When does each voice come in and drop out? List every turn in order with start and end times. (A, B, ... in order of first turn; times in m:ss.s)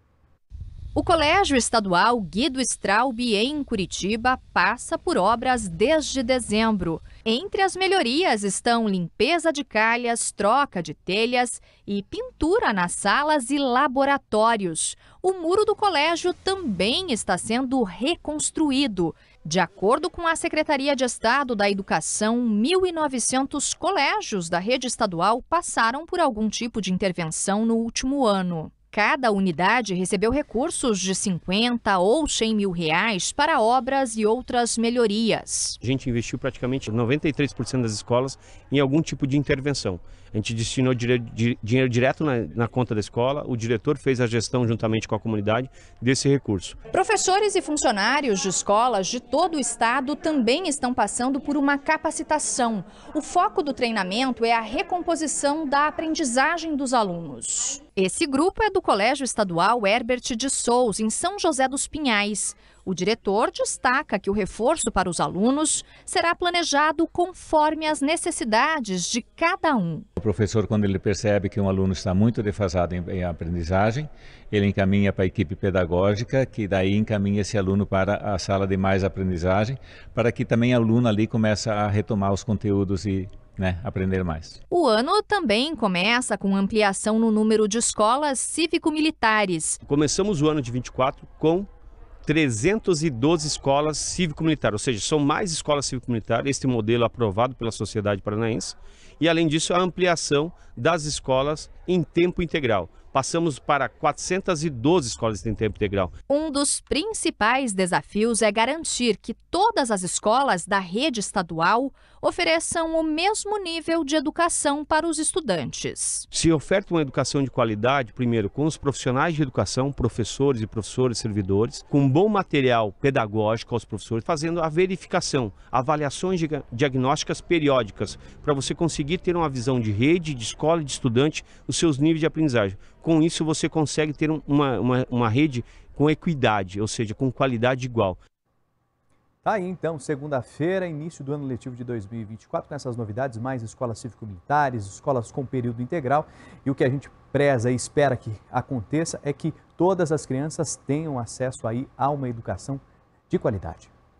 0:01.0-0:35.8 A
0:35.8-0:46.8 B
0:46.9-1:10.1 A
1:10.2-1:24.6 C
1:24.7-1:29.8 A
1:29.8-1:31.7 B
1:32.2-1:46.1 B
1:46.3-1:56.3 A
1:56.3-2:18.2 B
2:19.4-2:33.9 D